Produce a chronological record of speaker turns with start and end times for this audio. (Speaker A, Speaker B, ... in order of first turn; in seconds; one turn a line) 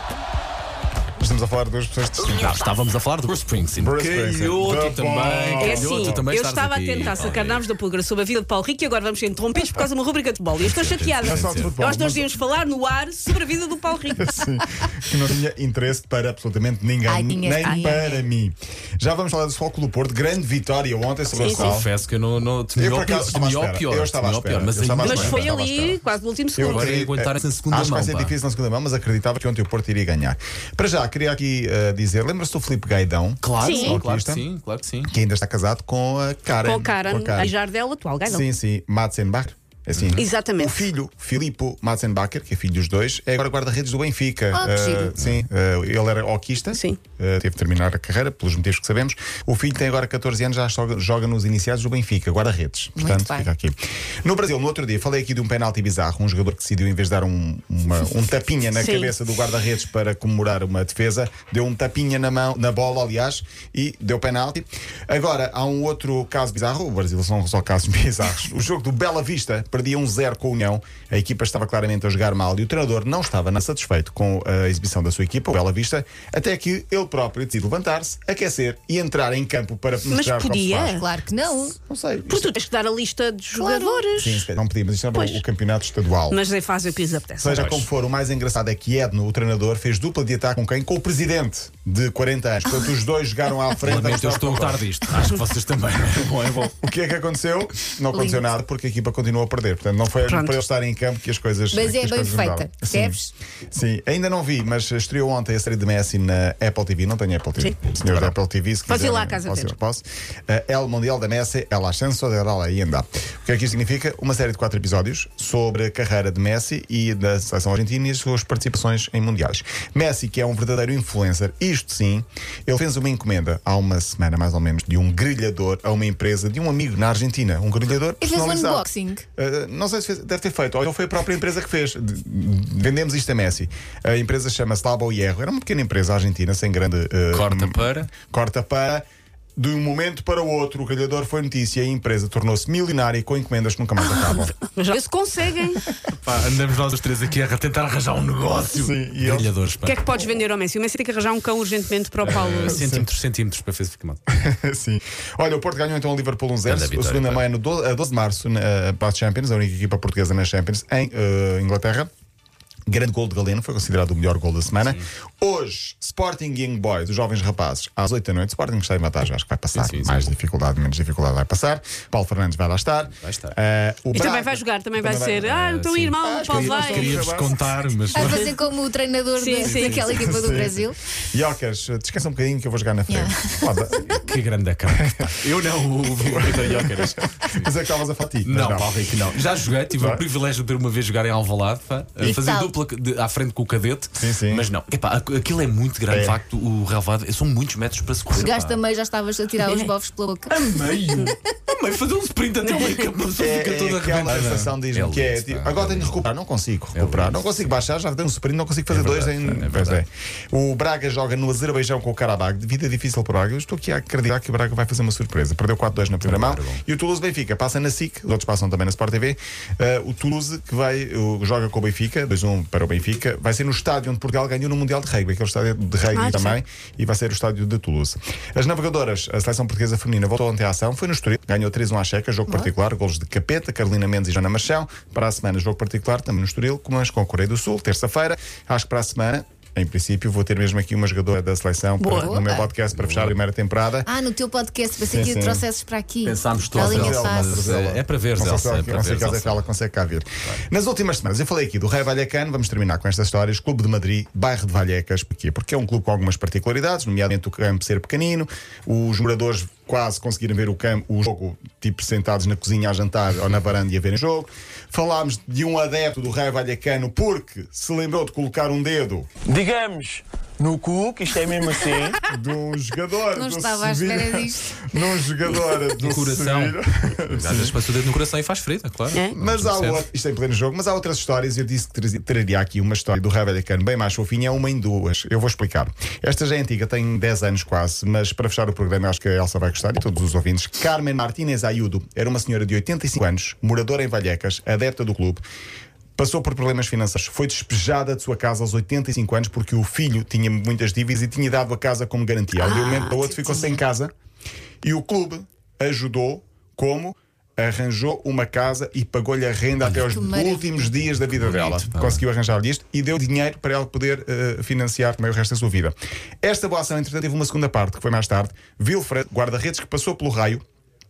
Speaker A: 1.2-2.6
Speaker B: 2.3-7.6
Speaker A: 3.8-6.2
Speaker C: 5.6-14.3
Speaker B: 10.6-11.7
Speaker A: 11.2-12.3
Speaker A: 14.2-21.9
Speaker D: 17.1-18.3
Speaker C: 17.6-17.9
Speaker C: 21.3-21.8
Speaker B: 21.5-26.0
Speaker A: 22.8-25.6
Speaker C: 25.0-26.9
Speaker A: 26.6-34.5
Speaker B: 26.6-28.4
Speaker B: 33.4-35.1
Speaker C: 33.6-34.0
Speaker D: 33.7-34.0
Speaker A: 35.1-37.5
Speaker C: 36.6-38.5
Speaker A: 38.2-81.0
Speaker B: 40.0-40.2
Speaker C: 40.2-40.9
Speaker D: 44.5-45.2
Speaker B: 45.2-45.4
Speaker C: 46.7-47.0
Speaker D: 53.0-53.5
Speaker C: 58.8-59.1
Speaker C: 80.1-81.0
Speaker D: 80.9-81.8
Speaker A: 81.8-82.5
Speaker C: 82.3-84.5
Speaker D: 83.6-84.0
Speaker A: 84.2-86.4
Speaker C: 85.1-85.4
Speaker C: 86.3-87.6
Speaker A: 87.4-94.8
Speaker B: 87.5-87.9
Speaker B: 93.8-96.8
Speaker A: 96.8-139.0
Speaker D: 98.1-98.5
Speaker C: 100.2-100.6
Speaker D: 101.7-103.2
Speaker C: 108.9-109.8
Speaker D: 128.2-129.2
Speaker B: 137.3-138.1
Speaker A: 139.6-144.5
Speaker C: 144.1-145.8
Speaker B: 146.1-150.0
Speaker A: 148.7-149.5
Speaker C: 149.8-152.8
Speaker B: 152.2-154.2
Speaker A: 152.7-153.1
Speaker A: 154.3-162.1
Speaker B: 156.7-157.4
Speaker A: 162.9-175.5
Speaker B: 164.8-165.1
Speaker B: 169.8-170.3
Speaker B: 173.1-173.6
Speaker C: 174.1-177.3
Speaker B: 175.4-178.5
Speaker A: 176.2-177.8
Speaker D: 178.1-181.0
Speaker C: 178.2-178.5
Speaker C: 179.4-180.1
Speaker B: 179.6-180.6
Speaker A: 180.1-184.2
Speaker D: 183.1-183.7
Speaker B: 183.9-187.7
Speaker A: 184.9-185.3
Speaker A: 186.2-188.9
Speaker B: 188.4-198.8
Speaker A: 189.9-190.2
Speaker D: 192.2-192.7
Speaker A: 194.2-194.7
Speaker A: 196.1-196.4
Speaker D: 198.3-200.7
Speaker C: 199.6-199.9
Speaker B: 200.5-206.2
Speaker C: 202.7-203.1
Speaker A: 203.4-244.1
Speaker B: 206.9-207.7
Speaker B: 208.9-210.0
Speaker B: 216.2-216.8
Speaker C: 226.1-226.6
Speaker C: 242.0-242.3
Speaker D: 242.1-242.7
Speaker B: 242.9-243.4
Speaker D: 244.1-247.6
Speaker A: 245.1-245.7
Speaker B: 246.2-249.7
Speaker A: 246.8-269.3
Speaker E: 269.5-272.2
Speaker A: 272.2-277.8
Speaker D: 273.3-275.1
Speaker B: 276.0-280.0
Speaker A: 279.3-295.4
Speaker A: 296.2-304.1
Speaker C: 302.6-303.2
Speaker D: 302.6-303.8
Speaker A: 304.8-320.6
Speaker D: 310.1-311.0
Speaker B: 311.2-312.2